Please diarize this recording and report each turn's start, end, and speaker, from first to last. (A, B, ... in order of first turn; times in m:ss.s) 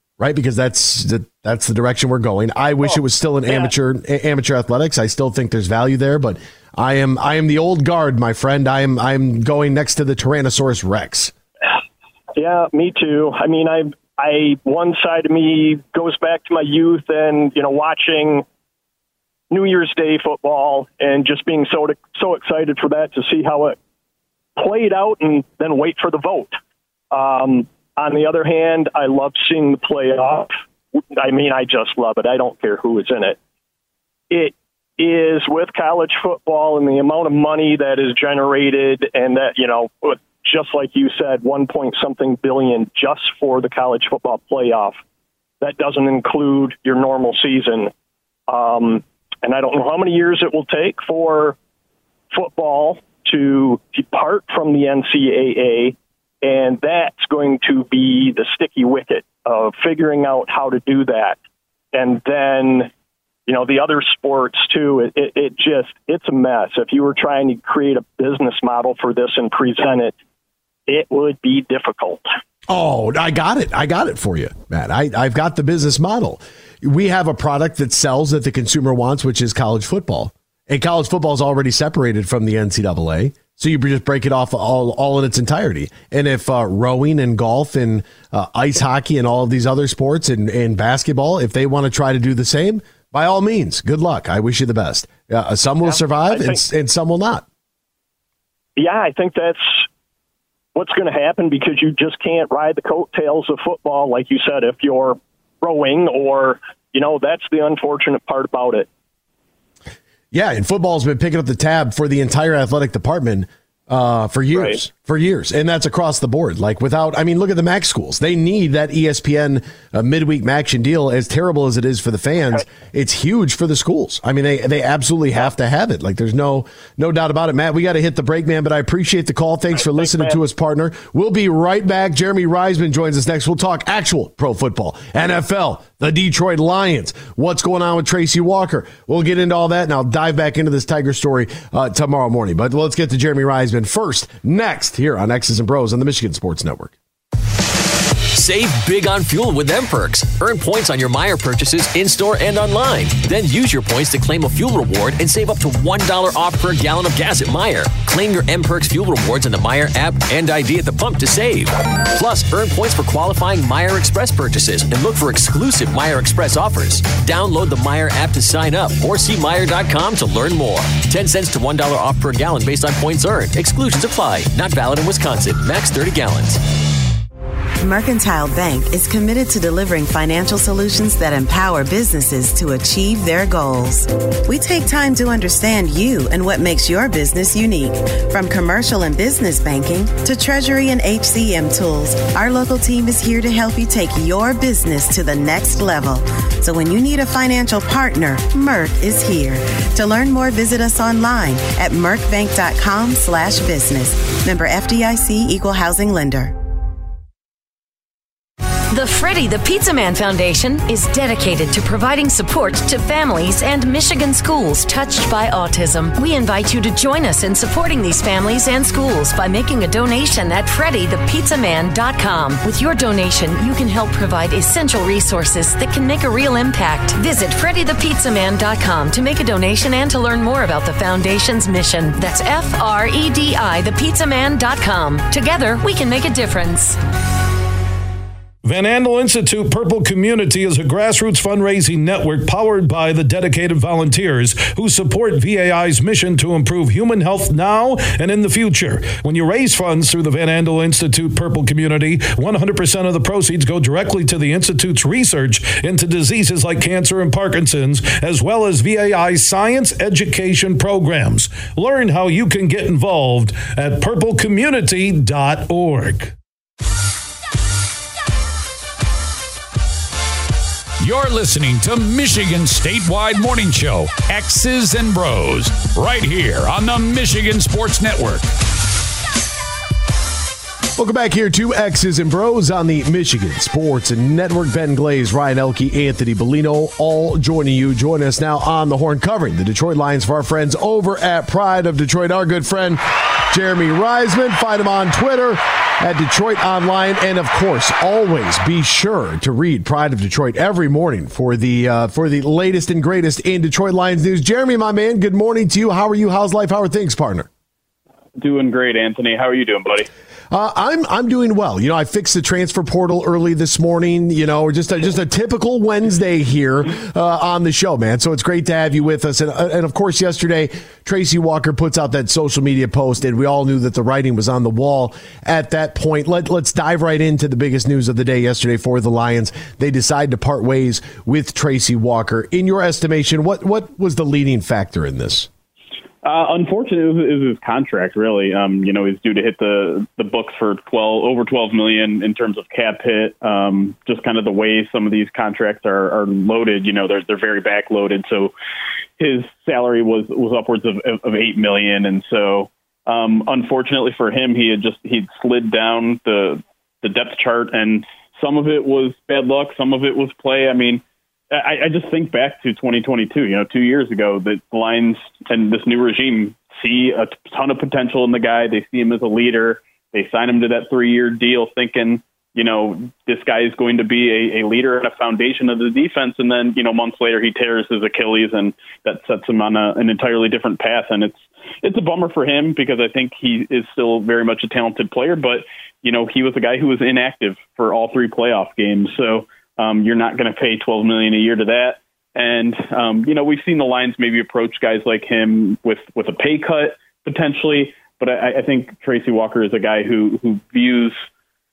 0:00.2-0:11.3 A
0:02.8-0:03.7 B
0:12.4-0:18.4 B
0:19.5-0:23.8 B
0:24.6-0:26.6 B
0:27.1-0:30.5 B
0:31.2-0:33.4 B
0:34.3-0:45.0 B
0:45.6-0:47.9 B
0:48.5-0:51.6 B
0:52.3-1:01.4 B
1:01.9-1:02.9 B
1:03.5-1:10.1 B
1:10.9-1:12.2 B
1:12.7-1:37.4 A
1:36.3-1:36.6 B
1:38.8-1:39.8 B
1:40.7-1:48.9 B
1:50.3-2:27.0 A
2:09.7-2:10.4 B
2:28.3-2:56.6 C
2:57.8-3:26.5 D
3:28.9-3:57.0 E
3:58.6-4:26.3 F
4:31.0-4:38.5 G
4:41.0-5:07.5 A
5:08.4-5:10.1 H
5:10.5-5:35.5 A
5:36.2-5:48.5 H
5:49.2-6:41.2 H